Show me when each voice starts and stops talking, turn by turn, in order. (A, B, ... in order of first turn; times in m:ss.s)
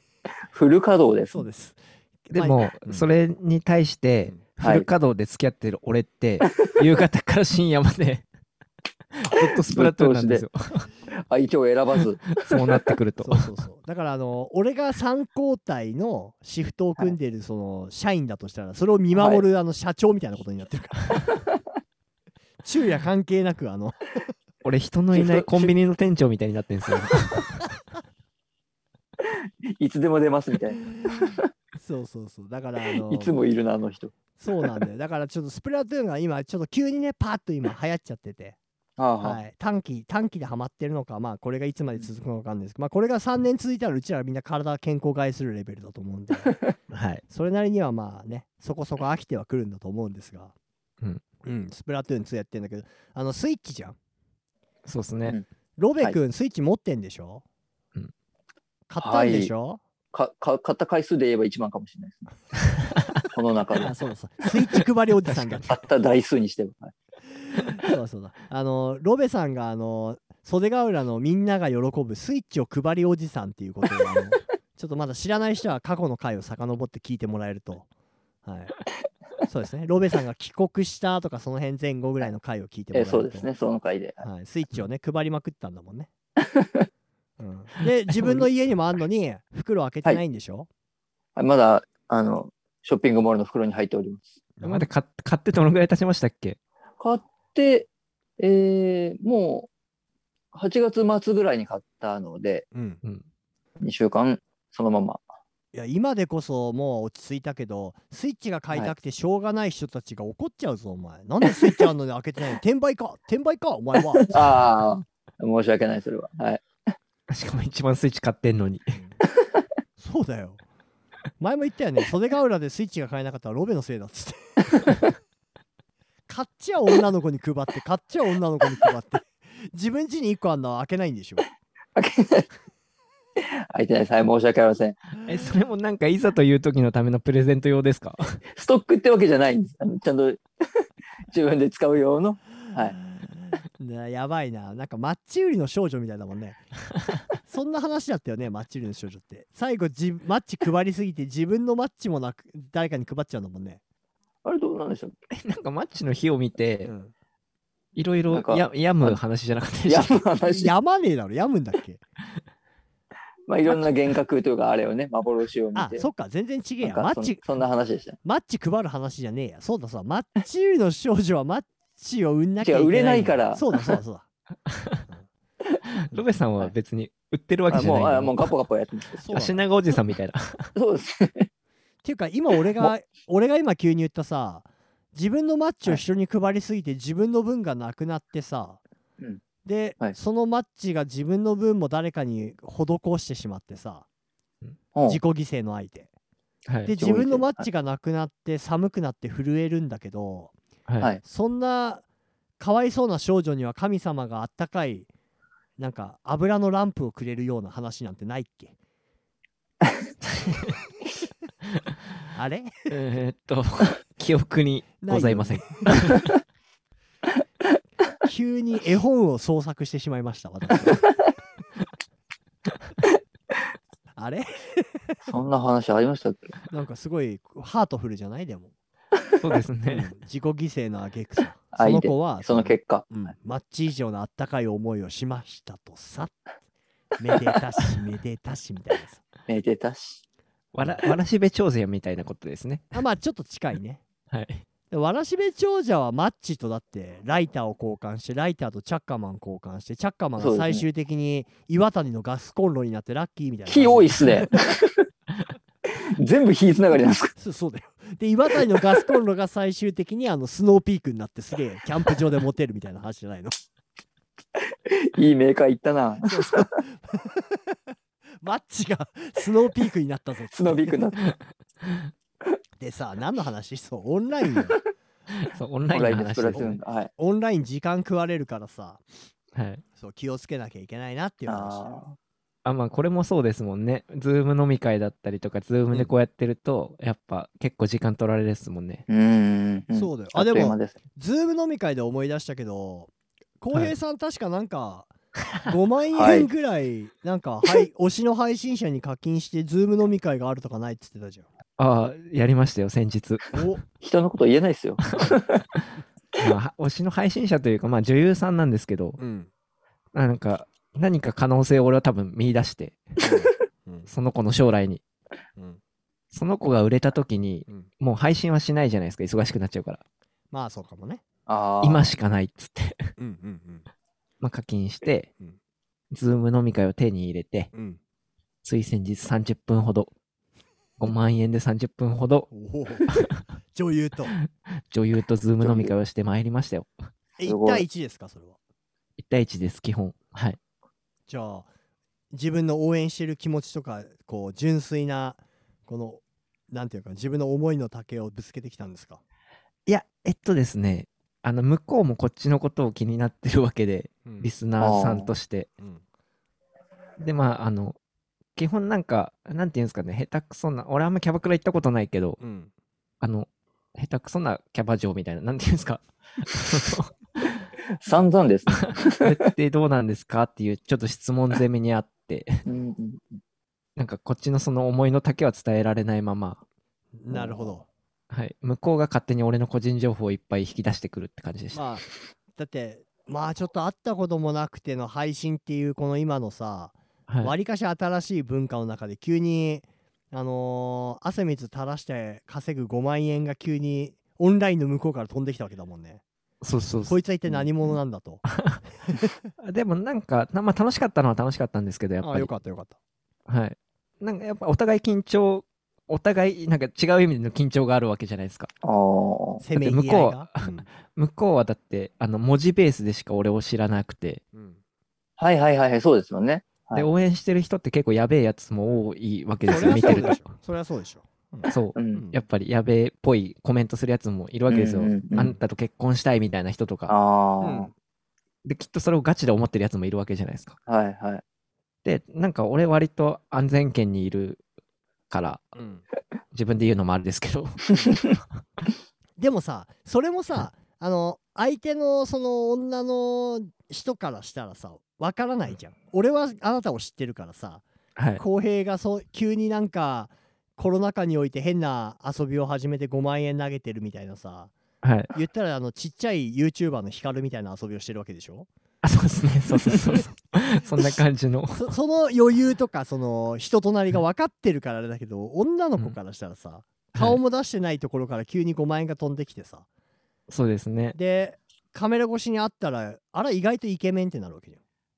0:00.5-0:01.4 A
0:01.3-0:03.1 B
0:02.3-0:08.2 C
0:04.6-0:04.9 A
0:09.1-0:10.9 C
0:09.4-0:10.4 A
0:11.1-0:12.3 A
0:12.3-0:13.5 C
0:13.2-0:21.2 B
0:19.1-0:19.4 A
0:22.6-0:24.3 B
0:24.6-0:27.6 C
0:25.1-0:25.7 A
0:29.8-0:31.4 A
0:31.8-0:33.4 B
0:33.0-0:34.1 A
0:34.4-0:38.6 B
0:39.0-0:39.4 A
0:39.2-0:46.5 B
0:46.9-0:47.2 C
0:47.3-0:50.5 B
0:51.4-0:54.0 B
0:54.8-0:55.4 C
0:55.8-0:57.4 B
0:58.9-0:59.8 B
0:59.0-0:59.5 A
1:00.1-1:02.3 A
1:03.3-1:03.9 A
1:03.8-1:05.7 B
1:05.2-1:05.7 C
1:05.6-1:06.9 A
1:07.8-1:17.9 B
1:18.4-1:18.8 B
1:19.4-1:23.5 B
1:22.9-1:24.2 A
1:24.2-1:26.1 B
1:26.6-1:26.8 A
1:27.4-1:30.7 B
1:28.1-1:28.5 C
1:31.4-1:34.4 A
1:34.6-1:34.9 B
1:34.6-1:36.6 C
1:37.0-1:37.9 A
1:38.4-1:39.7 A
1:40.5-1:42.6 A
1:42.7-1:43.0 B
1:43.8-1:45.2 A
1:45.7-1:54.3 B
1:54.1-1:56.6 A
1:57.3-1:58.8 C
2:00.0-2:00.6 B
2:01.4-2:04.9 B
2:06.3-2:11.4 B
2:11.9-2:12.5 A
2:13.4-2:15.0 A
2:15.2-2:18.4 C
2:18.5-2:20.4 A
2:21.3-2:23.0 A
2:23.4-2:26.6 B
2:27.4-2:33.8 B
2:34.4-2:35.2 A
2:35.3-2:36.9 C
2:36.8-2:37.1 B
2:37.9-2:40.2 C
2:38.3-2:39.2 A
2:39.8-2:40.7 A
2:40.4-2:42.0 B
2:43.5-2:46.1 A
2:45.7-2:47.6 B
2:46.8-2:48.2 A
2:48.2-2:54.2 B
2:52.6-2:53.6 A
2:54.7-2:55.0 C
2:56.1-2:58.5 C
2:57.7-2:59.2 A
2:59.2-2:59.6 B
2:59.3-3:00.7 C
3:00.7-3:01.5 A
3:02.0-3:08.8 B
3:09.6-3:14.0 B
3:14.9-3:15.2 A
3:15.0-3:16.1 B
3:16.7-3:16.9 C
3:16.8-3:20.5 B
3:17.0-3:17.6 A
3:21.2-3:22.0 B
3:22.6-3:25.1 B
3:25.8-3:28.7 B
3:32.3-3:32.7 B
3:32.9-3:36.2 C
3:35.0-3:35.9 B
3:38.2-3:41.0 B
3:44.2-3:45.4 B
3:45.3-3:46.6 A
3:46.7-3:48.7 B
3:49.4-3:50.1 C
3:49.9-3:56.4 B
3:51.7-3:53.1 A
3:57.2-3:59.2 B
3:59.5-4:00.2 A
4:00.7-4:02.9 C
4:02.9-4:04.0 B
4:04.3-4:04.6 C
4:04.9-4:14.5 B
4:10.4-4:10.8 A
4:13.6-4:15.0 A
4:16.2-4:17.3 A
4:17.4-4:23.5 B
4:24.9-4:26.8 A
4:26.2-4:27.8 B
4:28.4-4:30.9 B
4:30.5-4:31.3 A
4:32.8-4:34.8 B
4:35.4-4:36.8 C
4:35.9-4:37.1 A
4:37.2-4:39.0 B
4:39.5-4:39.8 C
4:40.0-4:42.0 B
4:41.4-4:42.2 A
4:42.6-4:49.0 C
4:49.1-4:50.9 A
4:49.9-4:55.1 B
4:55.6-5:01.5 B
4:56.1-4:56.5 A
5:01.8-5:03.6 C
5:03.5-5:03.8 B
5:04.0-5:05.6 A
5:05.1-5:05.9 C
5:06.4-5:09.2 C
5:09.2-5:09.5 B
5:10.1-5:13.0 C
5:13.2-5:14.1 B
5:14.1-5:15.0 C
5:16.3-5:20.0 C
5:20.5-5:21.2 B
5:21.5-5:22.1 A
5:21.8-5:23.1 C
5:23.2-5:23.8 B
5:24.4-5:25.3 C
5:26.1-5:27.7 C
5:27.7-5:28.0 B
5:28.6-5:30.1 C
5:31.0-5:32.5 C
5:32.5-5:33.1 B
5:33.7-5:34.4 B
5:34.9-5:36.9 C
5:35.6-5:35.9 A
5:37.4-5:38.6 B
5:37.4-5:37.8 A
5:39.2-5:40.6 C
5:41.3-5:41.7 B
5:42.3-5:49.2 B
5:49.9-5:55.7 C
5:54.2-5:54.5 B
5:54.8-5:55.3 A
5:57.2-5:58.0 C
5:58.6-6:02.4 C
6:02.4-6:02.7 B
6:03.2-6:07.6 C
6:08.0-6:09.4 A
6:08.7-6:12.5 C
6:12.6-6:13.4 A
6:14.0-6:16.6 C
6:17.2-6:17.9 B
6:17.3-6:17.7 A
6:18.3-6:21.9 C
6:21.7-6:36.2 B
6:27.3-6:27.5 C
6:36.6-6:37.2 C
6:37.0-6:38.4 B
6:38.5-6:38.8 C
6:39.0-6:39.3 B
6:39.6-6:42.5 C
6:42.2-6:43.0 B
6:43.5-6:48.7 C
6:48.8-6:49.6 A
6:49.6-6:50.9 B
6:49.8-6:54.4 C
6:54.5-6:54.8 B
6:55.4-6:57.1 A
6:56.9-7:00.4 C
6:59.6-7:02.4 B
7:01.7-7:07.1 C
7:01.9-7:02.2 A
7:04.7-7:05.6 A
7:07.1-7:07.9 A
7:07.6-7:07.9 B
7:08.6-7:10.8 C
7:10.9-7:11.4 A
7:12.0-7:14.6 C
7:15.3-7:15.7 C
7:15.7-7:16.0 B
7:16.5-7:17.8 C
7:17.9-7:18.2 B
7:19.4-7:27.8 B
7:28.2-7:28.4 C
7:28.4-7:34.7 B
7:35.0-7:35.3 C
7:35.3-7:38.7 B
7:39.0-7:41.9 C
7:41.7-7:49.8 B
7:50.5-7:51.2 C
7:51.1-7:54.8 B